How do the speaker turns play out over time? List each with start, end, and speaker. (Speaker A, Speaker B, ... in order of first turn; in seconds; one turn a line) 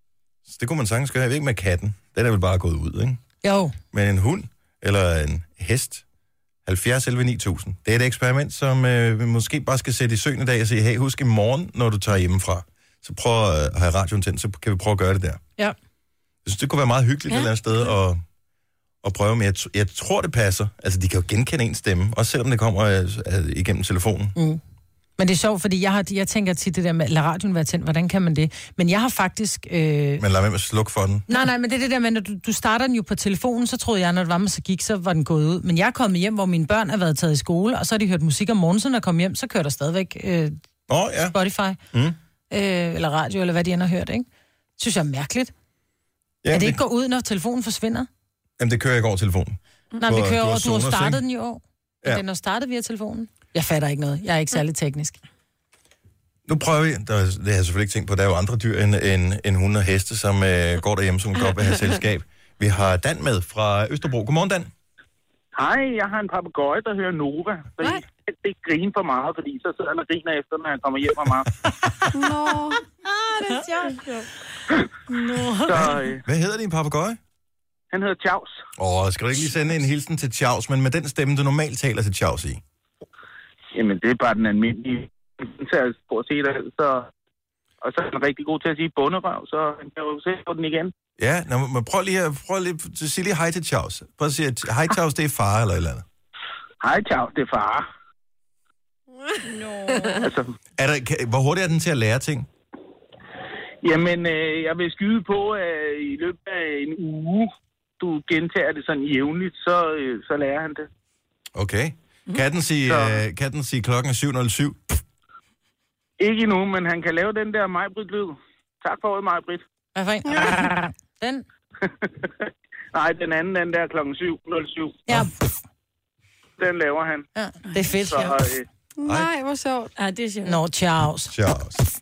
Speaker A: 0.5-3.2
Speaker B: 3.4-3.8
Speaker A: 3.9-6.0
Speaker A: 6.7-15.4
Speaker A: 16.4-18.2
Speaker A: 19.0-24.4
Speaker B: 24.4-24.6
Speaker B: 25.2-30.3
Speaker A: 30.2-31.3
Speaker B: 31.3-40.6
Speaker A: 40.9-41.4
Speaker B: 41.3-41.8
Speaker B: 42.5-44.3
Speaker B: 44.8-45.5
Speaker A: 46.4-46.8
Speaker B: 46.5-48.1
Speaker A: 48.6-51.2
Speaker B: 50.0-55.2
Speaker A: 56.5-64.7
Speaker C: 65.6-71.5
Speaker D: 72.1-72.8
Speaker B: 73.2-74.1
Speaker E: 75.1-75.9
Speaker C: 75.7-76.2
Speaker A: 75.7-77.2
Speaker C: 77.9-78.5
Speaker A: 78.8-82.6
Speaker C: 83.7-87.1
Speaker C: 87.8-90.9
Speaker A: 91.2-96.1
Speaker C: 96.8-97.9
Speaker E: 99.5-100.3
Speaker D: 99.9-100.2
Speaker C: 100.2-100.5
Speaker A: 100.8-102.5
Speaker C: 103.8-110.9
Speaker A: 111.5-115.0
Speaker C: 112.8-113.2
Speaker C: 116.2-119.6
Speaker B: 120.0-121.5
Speaker C: 122.9-125.1
Speaker B: 125.1-125.3
Speaker C: 126.6-127.3
Speaker B: 127.3-128.4
Speaker C: 127.9-128.7
Speaker D: 129.0-129.9
Speaker A: 129.0-129.3
Speaker E: 130.0-130.6
Speaker B: 130.4-131.4
Speaker A: 131.3-131.8